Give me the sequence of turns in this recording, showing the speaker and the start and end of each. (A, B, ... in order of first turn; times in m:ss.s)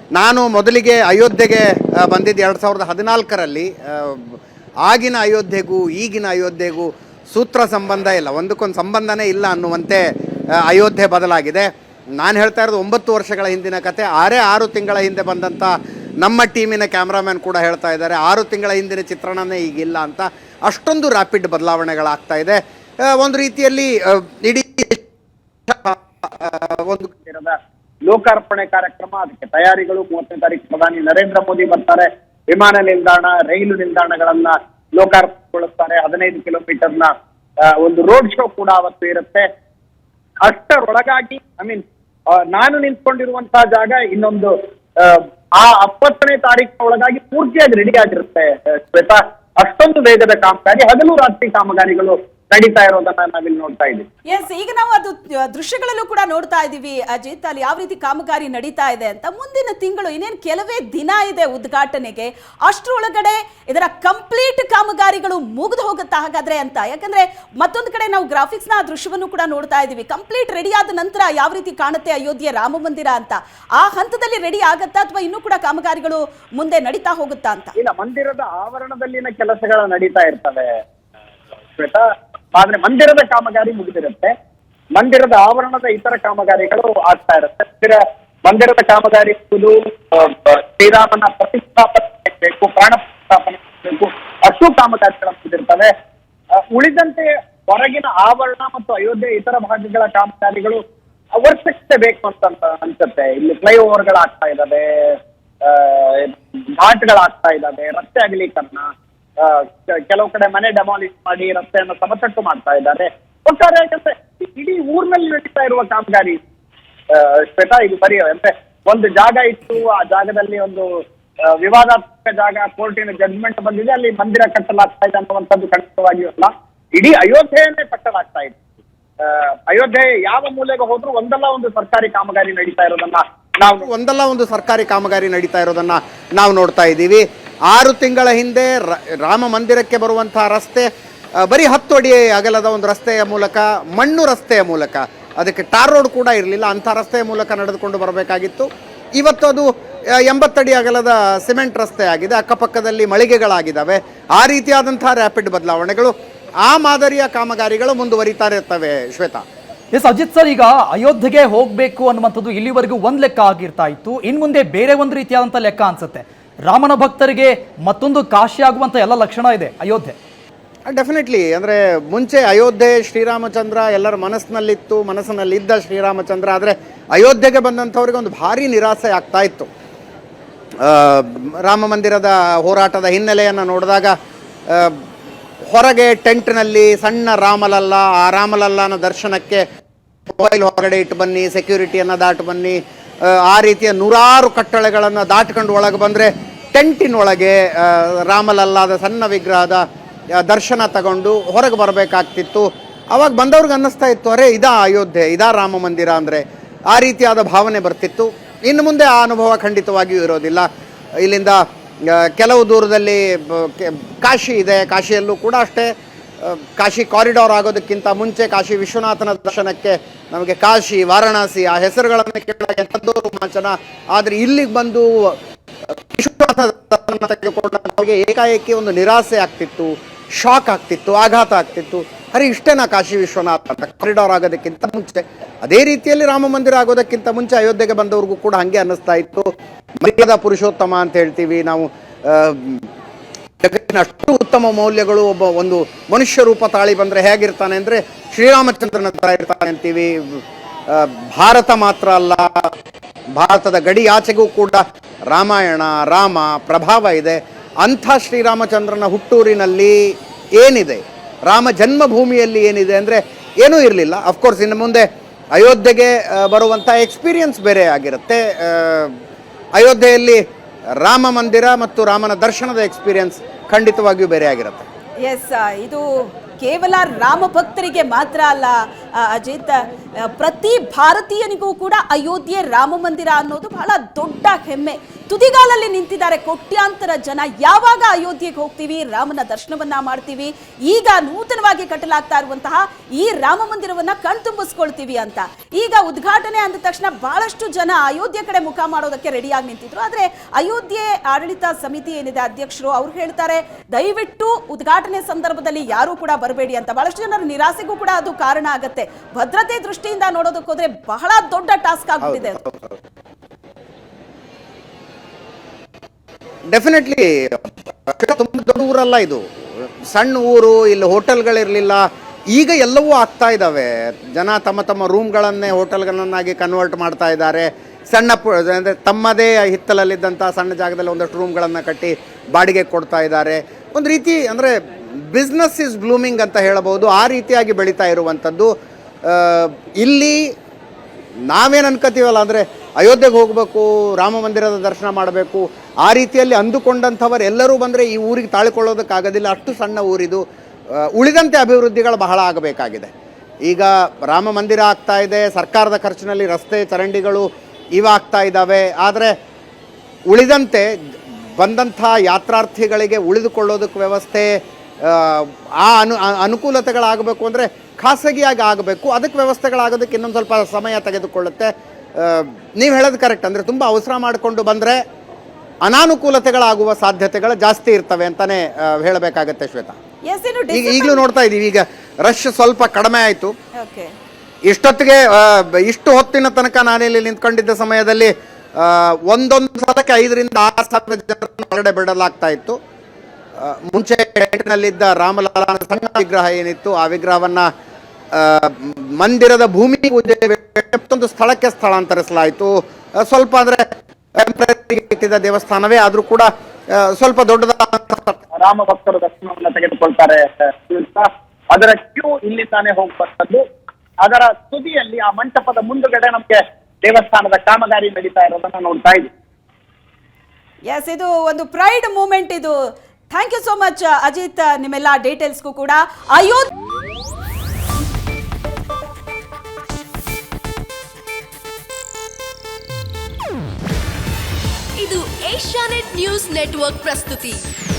0:00.2-0:10.0 A
0:10.6-0:25.0 A
0:25.7-0:27.1 A
0:27.2-0:27.6 B
0:28.1-0:37.1 B
0:37.6-0:39.4 B
0:40.4-0:54.1 B
0:54.3-1:17.7 C
1:17.8-1:20.7 B
1:21.8-1:22.0 B
1:22.6-1:24.3 B
1:25.0-1:35.9 B
1:36.6-1:40.8 B
1:41.4-1:56.4 B
1:57.1-2:00.9 B
2:01.5-2:08.6 B
2:09.2-2:13.9 B
2:13.8-2:20.9 A
2:21.4-2:36.1 A
2:36.6-2:39.4 A
2:39.9-2:50.2 D
2:50.9-2:59.7 A
3:00.8-3:04.1 A
3:04.7-3:05.0 A
3:05.6-3:09.6 A
3:10.3-3:19.8 A
3:20.4-3:30.7 A
3:31.2-3:45.4 A
3:46.1-3:59.5 A
4:00.0-4:02.8 A
4:03.6-4:12.7 A
4:13.4-4:29.1 A
4:29.8-4:30.4 A
4:31.0-4:34.9 A
4:35.2-4:36.0 C
4:36.6-5:12.6 C
5:12.2-5:13.0 A
5:16.7-5:19.4 A
5:20.1-5:34.7 A
5:35.3-5:38.7 A
5:39.3-5:40.4 A
5:41.5-5:50.4 A
5:51.1-5:53.1 A
5:53.7-5:59.3 A
6:00.3-6:00.9 A
6:01.6-6:15.0 A
6:15.8-6:20.0 A
6:20.3-6:21.2 C
6:20.7-6:23.5 A
6:23.8-6:24.1 C
6:24.7-6:32.8 A
6:33.6-6:37.7 A
6:38.3-6:48.4 A
6:48.6-6:53.6 B
6:54.2-6:59.3 B
7:00.9-7:02.8 C
7:03.3-7:06.7 C
7:15.0-7:17.6 E